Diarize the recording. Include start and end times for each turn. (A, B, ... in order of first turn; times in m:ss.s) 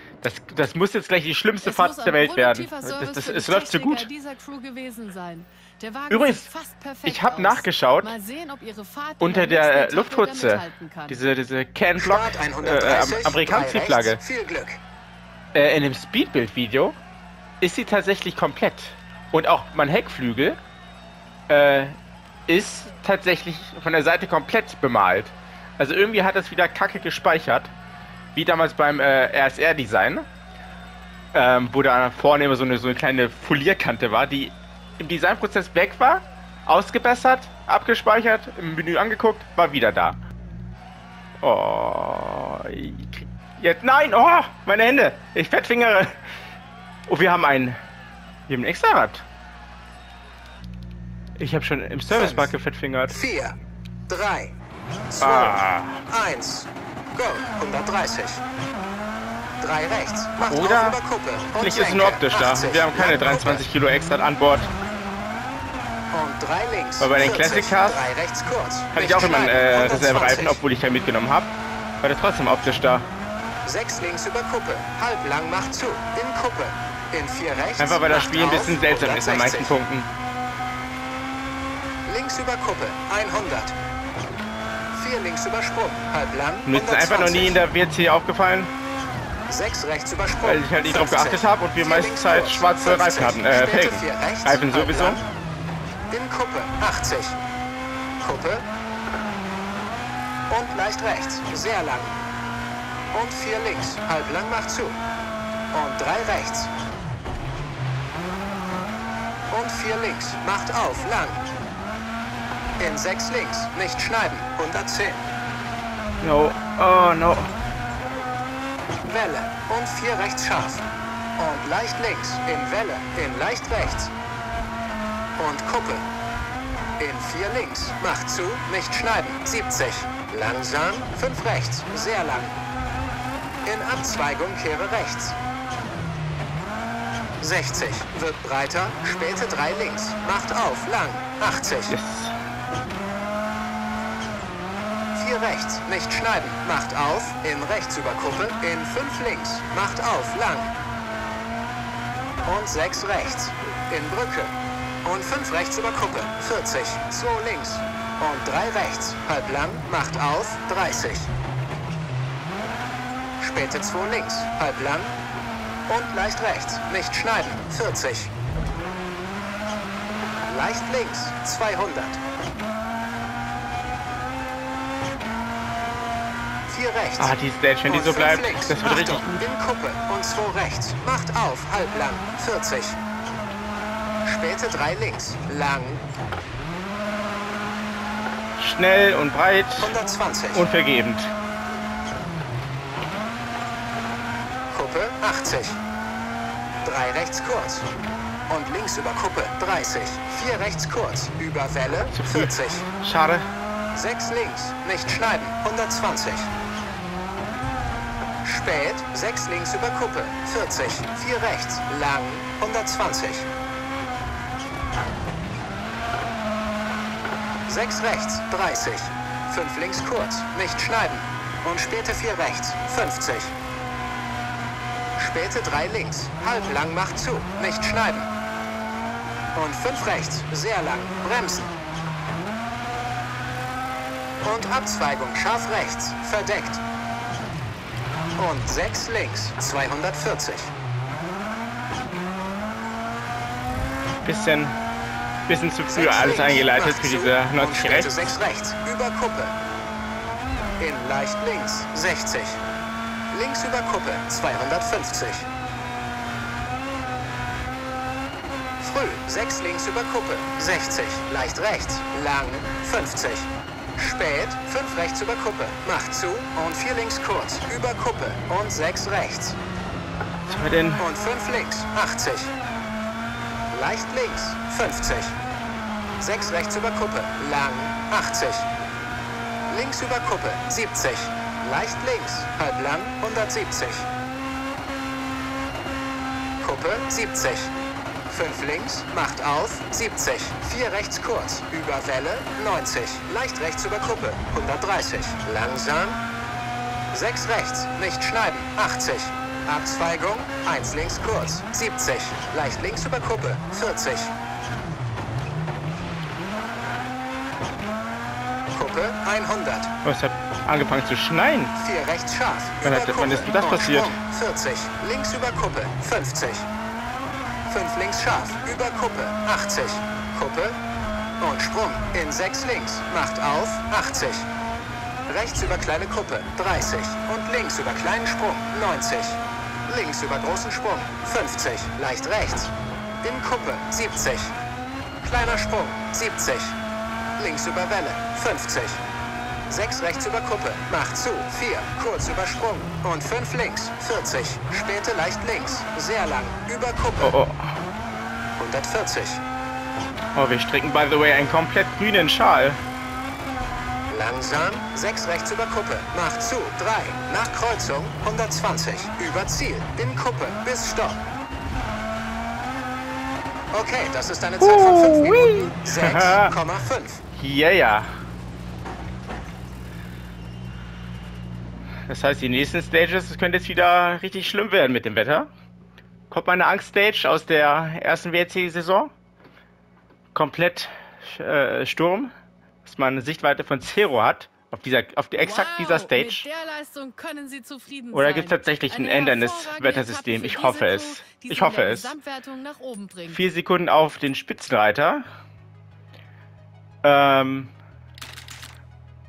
0:00.2-0:04.1 A
0:01.6-0:11.2 B
0:06.1-0:06.5 A
0:07.0-0:08.1 A
0:09.2-0:14.2 A
0:12.0-0:14.8 C
0:15.5-0:17.0 A
0:17.6-0:20.6 A
0:21.5-0:22.0 A
0:22.5-0:27.7 A
0:28.4-0:30.3 A
0:31.3-0:40.2 A
0:41.4-0:46.2 A
0:47.1-0:47.8 A
0:48.5-0:49.2 A
0:51.4-0:53.2 A
0:52.1-0:52.5 C
0:53.1-0:54.5 C
0:55.1-0:58.4 C
0:55.2-0:56.0 A
0:59.6-1:03.7 C
1:00.4-1:01.0 A
1:01.6-1:04.7 A
1:06.1-1:10.6 C
1:07.0-1:08.1 A
1:08.9-1:13.1 A
1:13.6-1:19.8 C
1:17.8-1:20.1 A
1:22.0-1:23.8 C
1:24.9-1:27.6 C
1:26.7-1:28.7 A
1:29.5-1:35.2 C
1:30.4-1:35.2 A
1:36.1-1:37.4 C
1:38.2-1:38.7 C
1:40.5-1:42.2 C
1:43.1-1:45.0 C
1:45.7-1:46.7 C
1:49.5-1:51.4 C
1:52.8-1:55.2 C
1:56.2-1:57.5 A
1:59.0-2:00.9 C
2:01.4-2:04.1 C
2:05.4-2:06.0 C
2:07.0-2:12.6 C
2:13.6-2:15.4 C
2:17.4-2:22.0 C
2:21.9-2:22.4 A
2:25.1-2:30.8 C
2:32.4-2:41.3 C
2:43.4-2:45.2 C
2:45.9-2:48.3 C
2:50.5-2:52.2 C
2:56.7-2:57.3 C
2:57.2-2:59.4 A
2:57.9-3:03.0 C
3:04.2-3:06.0 C
3:08.6-3:09.9 A
3:09.8-3:10.7 C
3:10.5-3:11.3 A
3:14.7-3:15.8 C
3:16.8-3:17.9 C
3:18.5-3:22.9 C
3:22.1-3:23.5 A
3:23.9-3:26.5 C
3:28.4-3:33.5 C
3:37.7-3:43.6 C
3:45.2-3:48.3 C
3:49.6-3:51.7 C
3:54.4-3:56.8 C
3:58.4-4:00.7 C
4:04.2-4:04.8 A
4:05.5-4:08.1 A
4:05.9-4:09.6 C
4:10.8-4:12.6 C
4:13.3-4:15.5 C
4:18.8-4:29.6 C
4:30.5-4:31.0 A
4:31.0-4:32.5 C
4:33.7-4:35.4 C
4:36.2-4:38.7 C
4:39.7-4:44.1 C
4:46.6-4:47.7 C
4:48.3-4:56.2 C
4:57.1-5:04.3 C
5:08.7-5:09.9 C
5:10.0-5:11.7 A
5:11.8-5:16.7 C
5:12.8-5:14.2 A
5:17.7-5:20.8 C
5:21.4-5:24.5 C
5:25.3-5:34.6 C
5:35.2-5:36.8 C
5:37.4-5:39.0 C
5:39.7-5:47.4 C
5:47.2-5:47.8 A
5:48.6-5:49.4 C
5:50.4-5:52.8 A
5:54.1-6:01.2 C
6:03.7-6:07.2 C
6:04.6-6:06.6 A
6:07.4-6:08.1 A
6:12.1-6:15.5 A
6:16.3-6:19.1 A
6:20.3-6:22.3 A
6:22.8-6:26.5 A
6:25.4-6:33.5 B
6:28.1-6:32.1 A
6:33.3-6:35.2 A
6:37.0-6:37.7 A